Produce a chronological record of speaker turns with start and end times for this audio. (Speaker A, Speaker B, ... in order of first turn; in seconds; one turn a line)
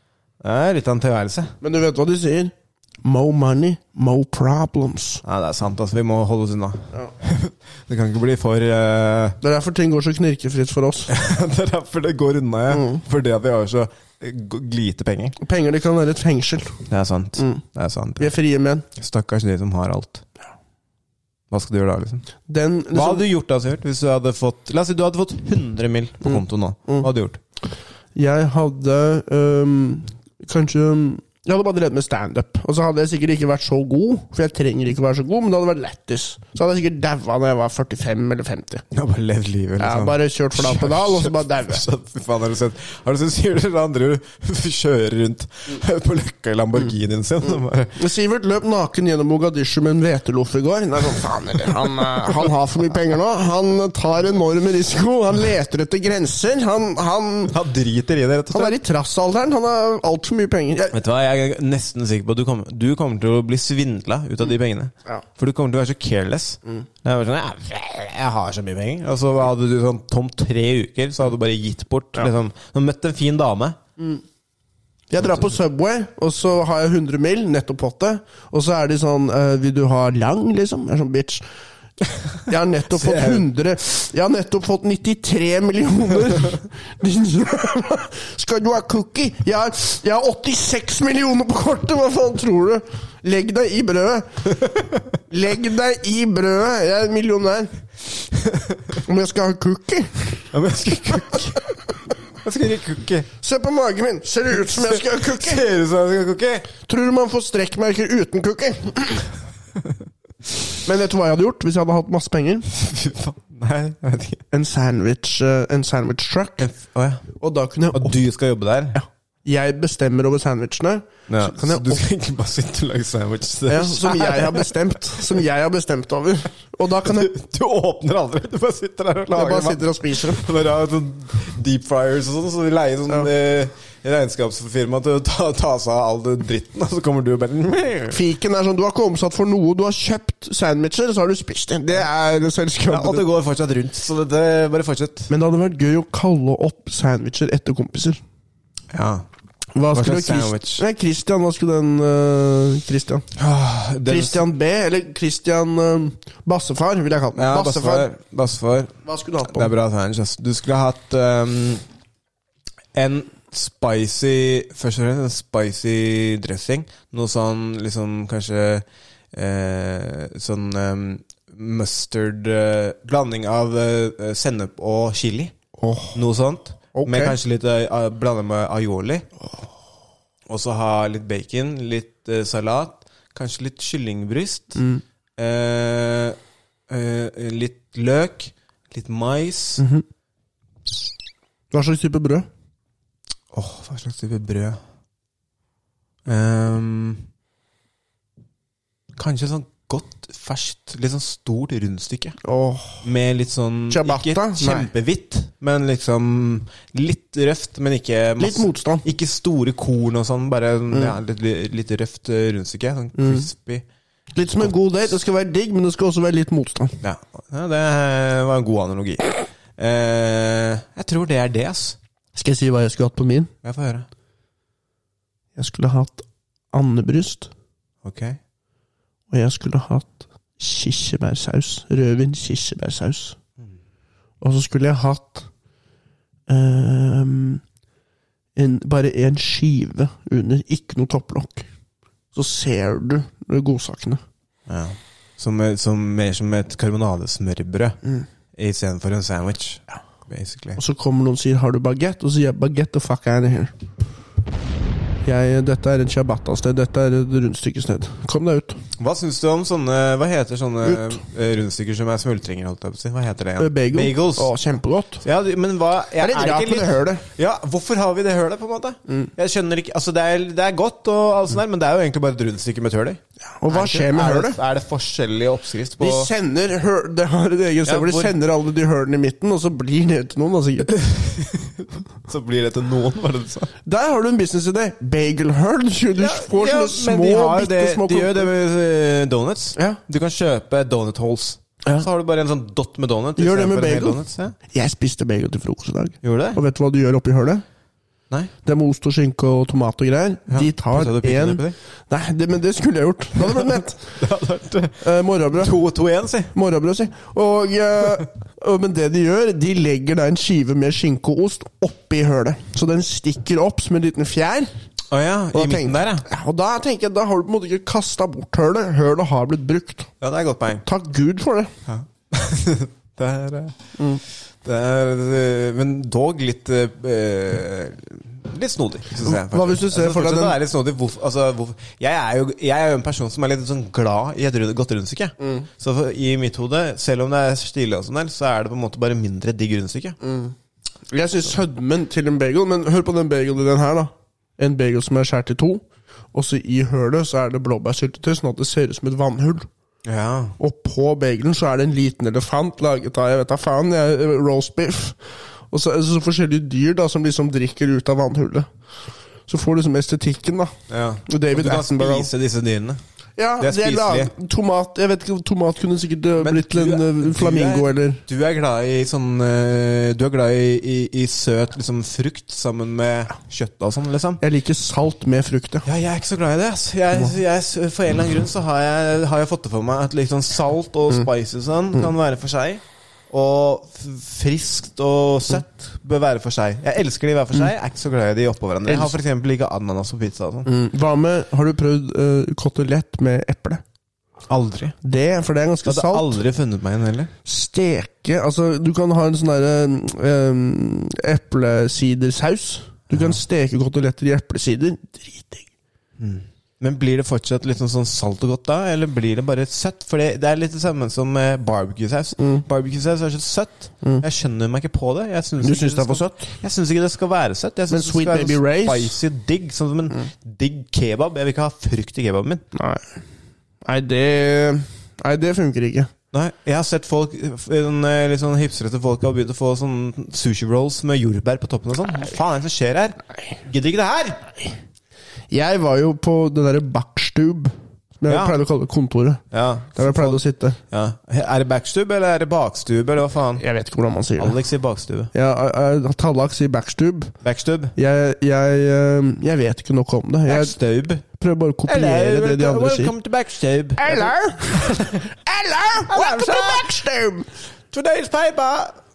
Speaker A: 0.4-1.5
Speaker B: 1.6-5.2
Speaker A: 5.2-9.4
Speaker B: 9.4-11.1
Speaker A: 11.1-15.4
Speaker B: 12.7-13.0
Speaker B: 15.4-16.8
Speaker A: 16.9-18.3
Speaker B: 18.2-18.9
Speaker A: 18.9-20.2
Speaker A: 21.5-22.2
Speaker B: 22.5-23.3
Speaker A: 22.9-27.4
Speaker B: 26.2-27.1
Speaker B: 28.1-38.8
Speaker A: 38.9-48.0
Speaker B: 39.8-41.8
Speaker B: 48.0-57.5
Speaker A: 57.5-58.8
Speaker B: 58.5-61.0
Speaker A: 60.9-73.8
Speaker B: 75.1-81.4
Speaker B: 82.5-94.4
Speaker A: 82.9-83.4
Speaker B: 95.3-97.7
Speaker B: 99.0-100.4
Speaker A: 100.5-101.7
Speaker A: 102.4-103.3
Speaker B: 103.4-105.6
Speaker A: 104.8-106.7
Speaker B: 106.8-109.3
Speaker B: 110.8-112.7
Speaker A: 112.7-114.4
Speaker B: 114.5-116.7
Speaker A: 116.6-117.2
Speaker B: 117.3-118.2
Speaker A: 117.9-119.0
Speaker B: 118.9-122.0
Speaker A: 121.3-124.7
Speaker B: 123.7-127.3
Speaker A: 127.0-138.2
Speaker B: 129.3-130.4
Speaker B: 138.1-143.2
Speaker A: 142.9-145.3
Speaker B: 145.3-148.2
Speaker A: 148.9-149.2
Speaker B: 149.7-153.2
Speaker A: 149.9-150.8
Speaker A: 153.3-154.4
Speaker B: 154.0-158.1
Speaker A: 157.3-158.9
Speaker B: 159.0-159.7
Speaker A: 159.5-161.8
Speaker A: 162.9-175.5
Speaker B: 175.8-176.2
Speaker A: 176.1-179.3
Speaker B: 176.9-177.4
Speaker A: 180.5-184.8
Speaker B: 184.8-185.0
Speaker A: 185.4-186.4
Speaker A: 186.9-189.8
Speaker B: 189.8-190.0
Speaker B: 191.7-192.5
Speaker A: 193.5-194.8
Speaker A: 196.2-197.2
Speaker A: 199.2-202.4
Speaker B: 202.4-203.0
Speaker A: 203.0-213.8
Speaker B: 203.9-204.9
Speaker B: 208.4-209.0
Speaker B: 213.2-213.5
Speaker B: 214.3-217.0
Speaker A: 217.0-222.0
Speaker B: 222.3-223.5
Speaker A: 223.6-224.1
Speaker B: 225.6-227.5
Speaker A: 228.0-228.4
Speaker B: 229.3-233.4
Speaker B: 234.4-235.5
Speaker B: 236.5-237.6
Speaker B: 238.5-241.7
Speaker B: 242.3-244.2
Speaker A: 244.7-248.0
Speaker A: 248.6-250.8
Speaker B: 250.8-253.7
Speaker B: 255.2-258.8
Speaker A: 259.0-264.5
Speaker B: 263.6-265.2
Speaker A: 265.2-276.3
Speaker B: 266.2-267.2
Speaker B: 273.6-274.6
Speaker B: 276.0-280.9
Speaker A: 277.9-278.3
Speaker A: 280.9-283.7
Speaker B: 283.8-288.5
Speaker A: 286.1-294.5
Speaker B: 289.7-290.0
Speaker B: 293.4-297.6
Speaker A: 296.2-296.6
Speaker B: 298.6-304.0
Speaker A: 300.5-301.7
Speaker A: 304.1-305.0
Speaker B: 305.0-305.7
Speaker A: 305.5-306.5
Speaker B: 306.5-314.7
Speaker A: 315.1-316.2
Speaker B: 315.5-320.1
Speaker A: 320.2-320.8
Speaker B: 320.8-321.7
Speaker A: 321.9-323.8
Speaker A: 324.6-340.2
Speaker B: 329.2-330.6
Speaker B: 335.4-335.6
Speaker B: 340.2-340.5
Speaker B: 341.1-349.7
Speaker A: 350.0-350.6
Speaker B: 350.6-355.2
Speaker B: 355.7-358.7
Speaker B: 359.5-360.7
Speaker A: 360.9-363.0
Speaker B: 361.2-362.3
Speaker B: 363.4-368.2
Speaker A: 363.6-364.3
Speaker A: 366.4-374.4
Speaker B: 374.4-375.8
Speaker A: 375.8-390.7
Speaker B: 388.9-389.1
Speaker B: 390.6-393.8
Speaker A: 394.5-394.9
Speaker B: 395.0-396.4
Speaker A: 395.9-397.3
Speaker B: 397.4-405.7
Speaker A: 406.2-422.6
Speaker B: 412.4-412.6
Speaker B: 415.6-416.5
Speaker B: 417.9-419.2
Speaker B: 422.7-423.2
Speaker B: 423.8-426.1
Speaker A: 426.3-434.5
Speaker B: 435.5-439.4
Speaker A: 438.3-438.5
Speaker A: 439.5-443.6
Speaker B: 439.9-440.8
Speaker B: 443.6-444.6
Speaker A: 444.4-445.3
Speaker B: 445.3-447.3
Speaker A: 447.4-447.9
Speaker B: 447.9-450.8
Speaker A: 450.5-451.2
Speaker B: 451.3-453.1
Speaker A: 451.9-455.2
Speaker B: 454.0-457.5
Speaker A: 456.1-456.9
Speaker A: 457.9-458.9